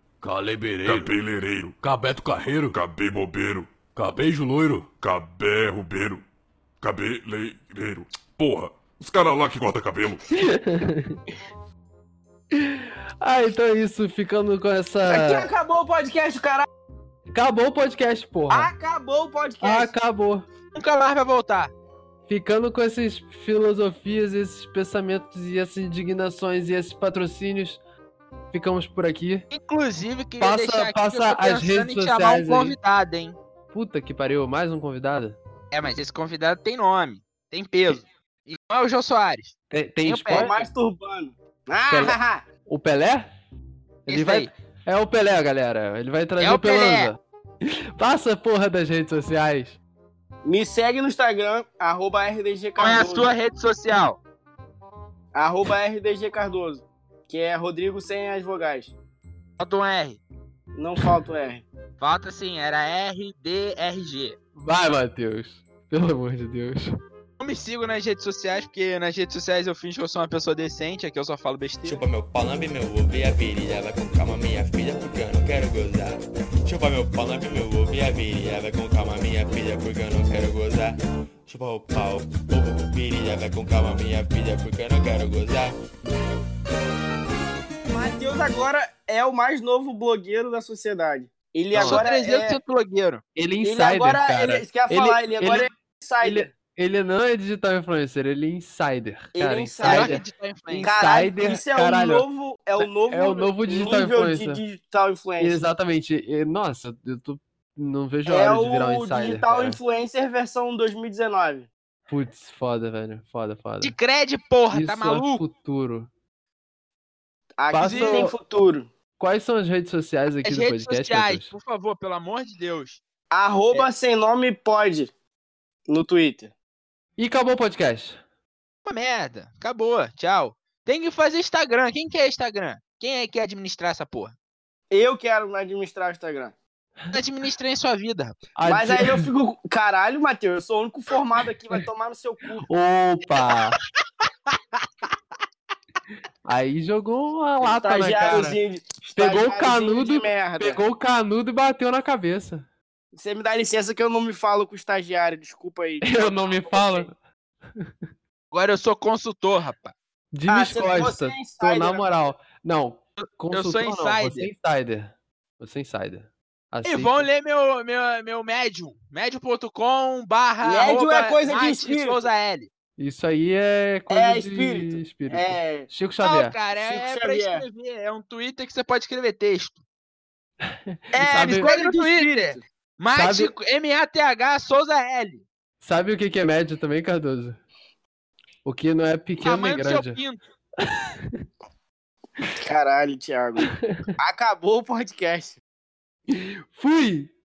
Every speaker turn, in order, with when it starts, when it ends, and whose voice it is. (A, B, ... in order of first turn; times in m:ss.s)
0:00.3-0:00.9 A
0:00.6-0:06.2 B
0:01.9-0:02.6 A
0:04.0-0:04.8 A
0:06.8-0:10.2 B
0:10.3-0:11.2 C
0:12.5-0:15.5 C
0:15.1-0:16.7 D
0:17.3-0:18.7 C
0:18.5-0:19.9 D
0:19.6-0:20.4 C
0:20.8-0:21.7 E
0:22.3-0:27.8 C
0:28.5-0:29.5 C
0:29.5-0:33.4 E
0:30.4-0:32.8 C
0:33.7-0:35.4 C
0:35.7-0:40.7 E
0:39.7-0:40.6 C
0:40.3-0:42.5 D
0:41.9-0:42.2 C
0:42.7-0:43.3 C
0:44.1-0:49.8 C
0:44.1-0:44.5 E
0:46.4-0:47.1 E
0:50.4-0:53.3 D
0:52.8-0:54.2 E
0:55.4-0:58.9 D
0:59.6-1:00.2 E
1:00.8-1:01.6 D
1:02.0-1:04.4 E
1:04.6-1:06.9 C
1:07.4-1:12.0 E
1:11.8-1:25.8 F
1:27.9-1:32.6 D
1:31.7-1:32.0 C
1:31.8-1:33.2 E
1:33.4-1:35.7 C
1:33.6-1:36.5 D
1:36.2-1:40.2 C
1:39.3-1:40.2 D
1:39.8-1:40.9 E
1:40.7-1:45.6 D
1:40.8-1:42.2 C
1:42.8-1:44.6 C
1:45.4-1:49.8 C
1:48.3-1:51.7 D
1:52.1-1:54.0 C
1:53.8-1:55.4 E
1:54.7-1:56.1 C
1:57.6-1:58.9 D
1:57.7-1:58.3 C
1:57.8-1:58.2 E
1:59.2-2:01.5 C
2:00.4-2:03.0 E
2:03.3-2:05.1 D
2:05.9-2:06.5 D
2:07.2-2:08.2 C
2:08.8-2:14.3 E
2:14.9-2:16.5 D
2:17.1-2:18.5 E
2:18.6-2:19.3 C
2:18.6-2:22.7 D
2:22.7-2:23.8 C
2:24.5-2:24.9 E
2:26.5-2:28.6 C
2:27.6-2:30.8 D
2:29.2-2:32.7 C
2:33.1-2:37.1 D
2:36.0-2:37.2 C
2:38.5-2:39.9 E
2:40.3-2:47.3 C
2:40.5-2:42.3 D
2:43.5-2:44.5 E
2:46.8-2:52.7 E
2:50.6-2:52.2 D
2:53.0-2:56.6 C
2:54.1-2:55.9 D
2:56.2-2:59.8 E
2:56.8-2:57.7 D
3:00.7-3:01.7 C
3:01.1-3:02.6 D
3:01.3-3:05.4 E
3:03.1-3:03.5 C
3:05.8-3:07.6 C
3:08.6-3:10.2 C
3:09.4-3:10.4 E
3:10.8-3:11.4 C
3:12.5-3:15.6 D
3:13.7-3:14.0 C
3:16.3-3:17.3 C